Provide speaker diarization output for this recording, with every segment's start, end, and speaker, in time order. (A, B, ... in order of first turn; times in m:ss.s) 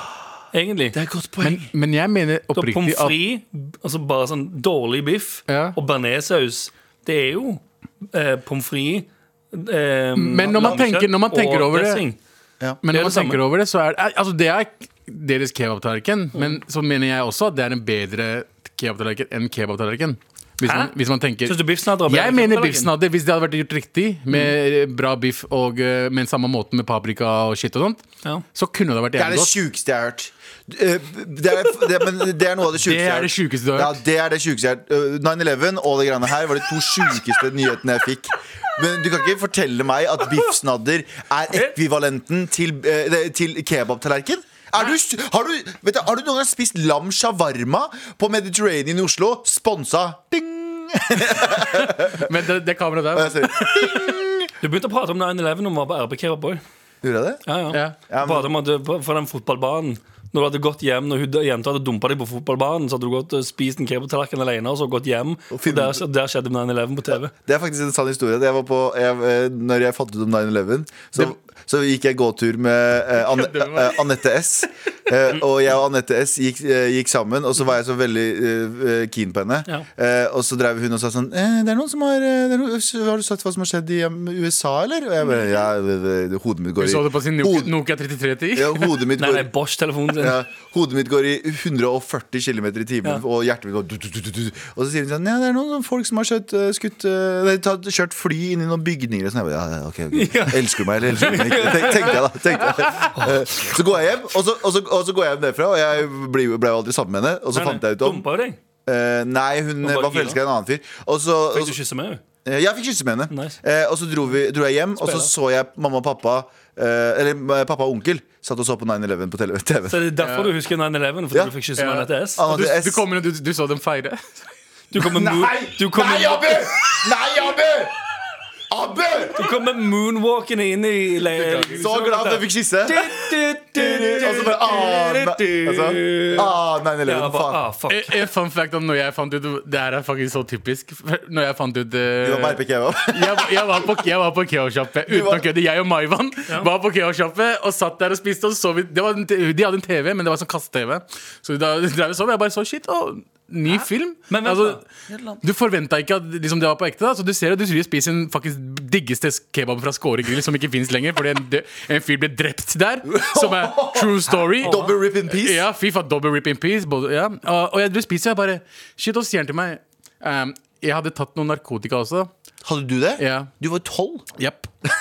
0:00.5-0:01.0 A
0:00.9-0:01.7 B
0:01.4-0:03.2 C
0:02.5-0:12.2 A
0:05.5-0:05.8 C
0:10.2-0:12.0 C
0:12.8-0:28.0 C
0:12.9-0:13.4 A
0:20.6-0:20.9 A
0:21.4-0:22.9 A
0:28.5-0:29.6 C
0:29.2-0:52.3 B
0:32.8-0:34.0 C
0:51.6-0:54.2 C
0:53.1-0:54.5 B
0:54.6-0:56.6 A
0:57.0-0:57.4 B
0:57.5-1:07.3 A
0:58.1-0:58.5 B
1:05.5-1:06.0 B
1:07.3-1:27.7 B
1:13.2-1:14.0 C
1:26.8-1:29.0 C
1:28.6-1:29.5 B
1:29.2-1:30.4 A
1:30.2-1:48.3 B
1:40.1-1:42.3 A
1:42.8-1:43.1 C
1:47.5-1:48.6 A
1:48.9-1:51.8 B
1:49.8-1:50.4 A
1:51.5-1:52.2 A
1:52.4-2:00.1 B
1:53.3-1:53.6 A
1:55.0-1:55.3 A
1:59.9-2:02.4 A
2:00.2-2:00.5 C
2:01.8-2:04.2 C
2:02.4-2:03.0 B
2:04.9-2:06.6 A
2:05.0-2:08.0 B
2:08.7-2:09.4 B
2:09.4-2:16.5 A
2:11.3-2:11.9 C
2:11.8-2:13.1 B
2:13.7-2:17.6 B
2:17.0-2:18.2 A
2:17.9-2:34.8 C
2:22.2-2:23.9 B
2:25.1-2:25.5 B
2:34.3-2:34.8 A
2:35.1-2:35.4 B
2:35.4-2:52.3 C
2:43.1-2:45.6 B
2:44.6-2:44.9 A
2:52.6-2:54.3 B
2:53.2-2:53.5 C
2:54.4-2:54.7 C